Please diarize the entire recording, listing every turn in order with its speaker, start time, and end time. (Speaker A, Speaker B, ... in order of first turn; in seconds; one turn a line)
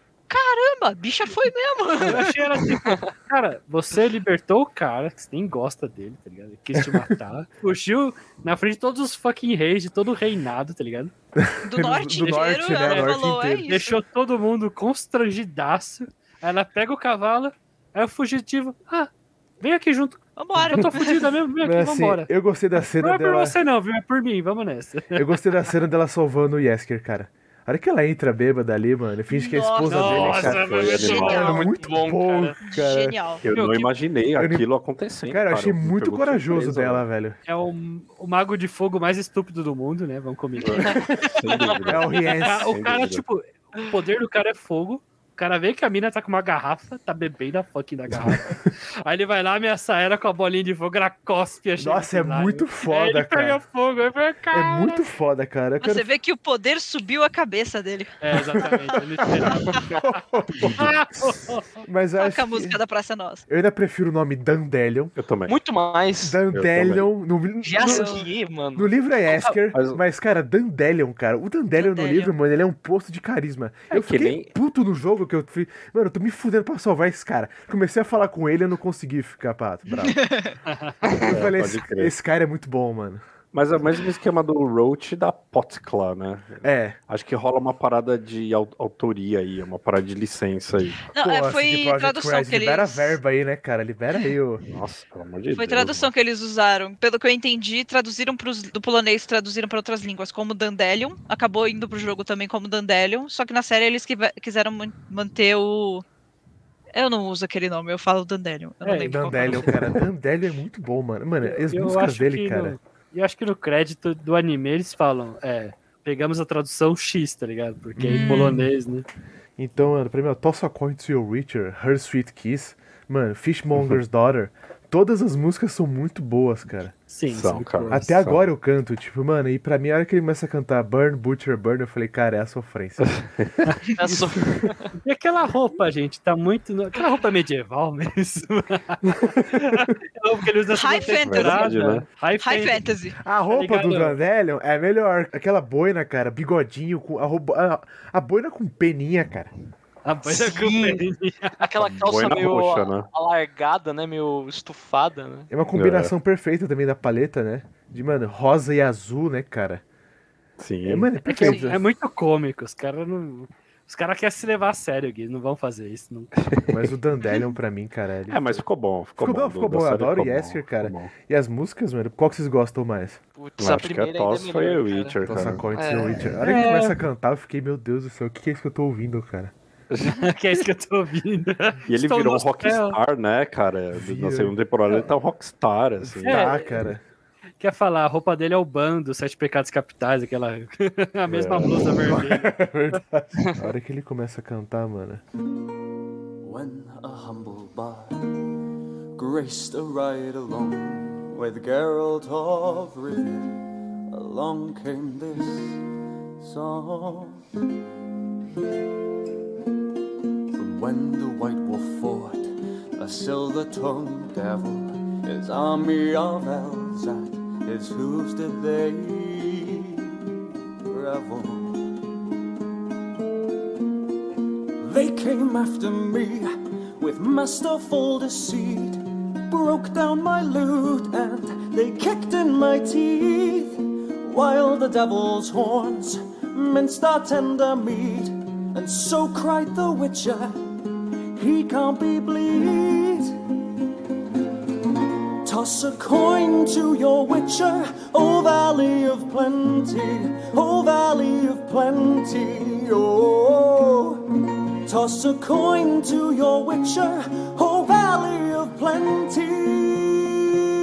Speaker A: 0.3-2.4
Speaker B: 2.0-11.1
Speaker C: 6.8-7.0
Speaker C: 11.4-13.7
Speaker A: 11.6-14.0
Speaker B: 12.2-22.3
Speaker A: 20.4-21.3
Speaker C: 21.6-23.6
Speaker B: 23.0-25.4
Speaker C: 25.1-33.2
Speaker A: 29.3-31.8
Speaker B: 29.9-31.5
Speaker D: 30.0-31.6
Speaker E: 31.2-32.6
Speaker A: 32.6-33.4
Speaker D: 33.4-37.0
Speaker B: 33.5-33.9
Speaker C: 34.4-34.6
Speaker C: 35.3-37.4
Speaker B: 37.5-41.0
Speaker D: 40.6-43.2
Speaker E: 40.8-42.1
Speaker C: 40.8-41.3
Speaker C: 41.9-42.7
Speaker B: 42.4-55.1
Speaker C: 51.8-53.6
Speaker C: 54.5-56.1
Speaker A: 55.8-59.0
Speaker B: 58.2-59.9
Speaker C: 59.2-60.9
Speaker A: 59.5-59.8
Speaker D: 60.5-61.4
Speaker B: 60.8-61.8
Speaker C: 61.9-62.8
Speaker A: 62.2-63.4
Speaker C: 63.5-65.1
Speaker D: 65.2-65.6
Speaker E: 65.5-66.4
Speaker C: 66.2-68.2
Speaker D: 66.5-67.1
Speaker E: 67.6-68.9
Speaker A: 67.8-68.3
Speaker C: 68.7-80.2
Speaker D: 69.7-70.0
Speaker A: 71.8-72.3
Speaker D: 73.9-74.5
Speaker A: 79.9-80.6
Speaker B: 80.7-81.0
Speaker C: 81.3-83.2
Speaker D: 81.3-82.1
Speaker D: 83.5-91.0
Speaker C: 86.6-87.0
Speaker A: 91.1-93.2
Speaker C: 91.2-94.6
Speaker D: 94.7-96.1
Speaker A: 95.5-106.0
Speaker A: 106.9-109.8
Speaker B: 108.8-109.6
Speaker C: 109.0-112.8
Speaker B: 111.4-119.1
Speaker C: 118.0-118.7
Speaker A: 118.1-118.7
Speaker C: 119.6-126.9
Speaker B: 127.1-128.2
Speaker D: 127.3-128.5
Speaker C: 127.9-133.2
Speaker D: 133.0-133.7
Speaker E: 134.0-134.9
Speaker B: 135.0-142.8
Speaker A: 140.7-141.8
Speaker D: 141.2-142.1
Speaker A: 142.4-143.2
Speaker C: 143.2-149.5
Speaker B: 143.5-144.2
Speaker B: 150.1-151.6
Speaker E: 150.2-151.1
Speaker E: 151.6-155.5
Speaker D: 151.8-153.1
Speaker C: 155.5-159.8
Speaker D: 155.7-156.1
Speaker D: 160.6-161.1
Speaker C: 160.9-161.8
Speaker B: 161.2-166.3
Speaker A: 161.4-161.7
Speaker D: 166.5-166.9
Speaker C: 166.7-168.6
Speaker D: 168.3-171.1
Speaker C: 169.2-173.2
Speaker E: 173.4-176.3
Speaker D: 173.6-175.7
Speaker C: 175.3-179.5
Speaker B: 176.4-177.0
Speaker D: 179.9-180.2
Speaker B: 180.0-183.0
Speaker D: 181.9-186.7
Speaker C: 183.9-184.6
Speaker C: 186.0-187.0
Speaker B: 186.2-186.8
Speaker B: 187.6-192.6
Speaker D: 191.3-191.9
Speaker C: 192.0-195.2
Speaker F: 196.4-198.2
Speaker F: 199.2-205.8
Speaker F: 206.4-207.4
Speaker F: 210.5-220.0
Speaker F: 220.9-221.8
Speaker F: 224.8-240.6
Speaker F: 241.4-243.3
Speaker F: 245.4-254.2
Speaker F: 254.9-260.5